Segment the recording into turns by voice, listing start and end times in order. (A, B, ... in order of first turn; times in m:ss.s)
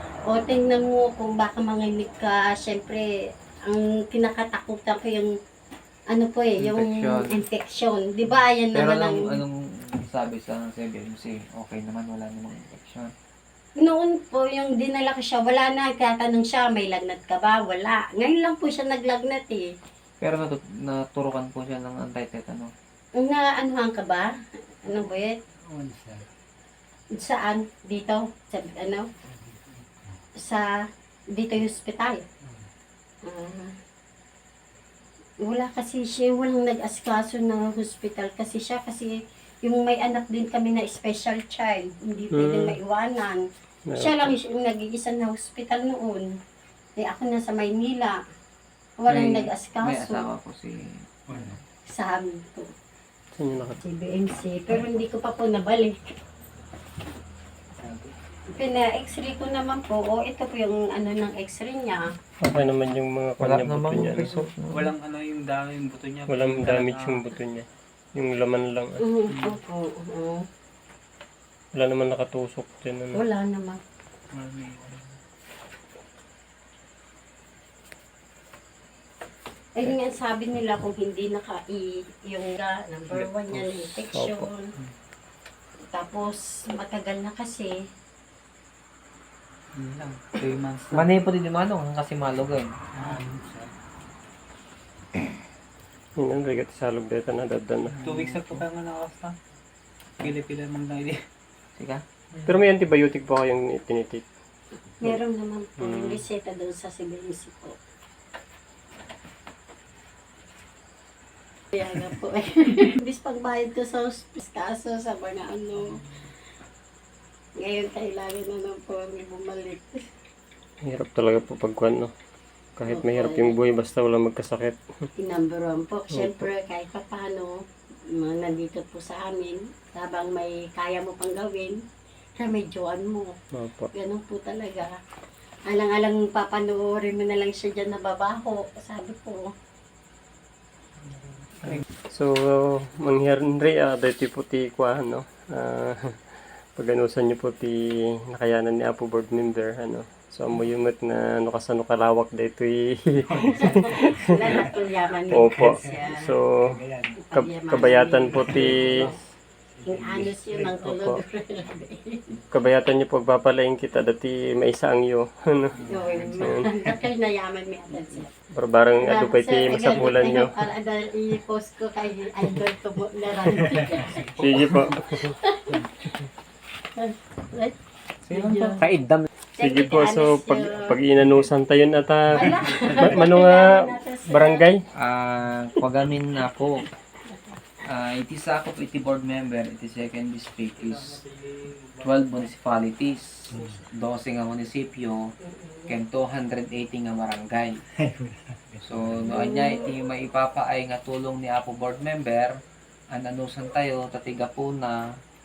0:00.3-0:03.0 A
0:03.7-0:05.3 A
0:06.1-0:09.4 A
0:06.6-0:07.4 B
0:08.7-0:13.1 B
0:13.8-0:19.7 A
0:20.2-0:22.7 B
0:23.2-0:24.3 A
0:24.8-0:25.4 A
0:25.7-0:26.3 C
0:27.2-0:29.1 A
0:30.4-0:30.7 A
0:31.3-0:32.2 A
0:33.2-0:33.7 A
0:35.4-0:46.3 A
0:42.3-0:42.7 D
0:43.9-0:44.3 D
0:47.0-0:48.2 A
0:49.0-0:50.3 A
0:49.1-0:51.5 B
0:51.3-0:51.6 C
0:51.9-0:52.7 A
0:53.4-0:53.8 D
0:53.8-0:56.0 A
0:57.8-0:58.1 C
0:58.5-1:02.1 A
1:02.4-1:04.3 D
1:03.4-1:04.9 B
1:04.7-1:07.2 E
1:06.3-1:09.0 D
1:09.0-1:10.4 A
1:11.7-1:13.2 D
1:13.1-1:13.8 A
1:14.3-1:15.1 E
1:19.7-1:24.7 A
1:23.5-1:24.5 D
1:25.9-1:27.7 A
1:30.9-1:32.7 B
1:32.9-1:33.7 C
1:36.2-1:38.0 D
1:38.0-1:38.6 B
1:38.0-1:39.3 E
1:40.2-1:41.2 E
1:41.8-1:42.0 B
1:42.4-1:44.2 D
1:45.0-1:47.7 A
1:45.8-1:46.2 D
1:51.7-1:56.0 A
1:57.6-2:00.0 A
2:00.8-2:02.1 D
2:02.8-2:04.8 D
2:02.9-2:03.5 A
2:05.2-2:07.5 A
2:06.1-2:06.4 D
2:08.2-2:11.8 A
2:12.4-2:13.3 A
2:13.5-2:13.9 D
2:13.9-2:14.9 A
2:15.7-2:19.4 A
2:22.1-2:26.1 D
2:26.8-2:27.8 D
2:28.3-2:34.2 D
2:33.3-2:34.7 C
2:33.7-2:36.3 A
2:35.3-2:36.6 D
2:35.3-2:37.2 C
2:37.3-2:39.1 A
2:37.3-2:39.0 D
2:38.3-2:40.8 C
2:39.8-2:42.4 A
2:40.8-2:41.2 D
2:42.5-2:46.7 D
2:45.8-2:46.2 C
2:45.8-2:48.3 A
2:45.9-2:46.4 B
2:48.5-2:50.6 D
2:49.0-2:55.9 A
2:53.7-2:54.3 C
2:54.2-2:55.3 D
2:57.0-2:57.7 A
2:58.3-2:59.3 B
2:58.3-2:58.8 A
2:59.6-3:01.0 A
2:59.6-3:04.8 D
3:02.3-3:04.6 A
3:05.0-3:06.9 B
3:07.3-3:07.6 A
3:07.8-3:11.2 B
3:11.2-3:11.9 E
3:12.0-3:15.2 B
3:13.5-3:13.8 C
3:13.5-3:13.8 A
3:15.4-3:16.0 A
3:15.9-3:17.8 B
3:17.9-3:19.3 C
3:18.8-3:22.6 B
3:19.3-3:19.9 A
3:23.1-3:25.0 B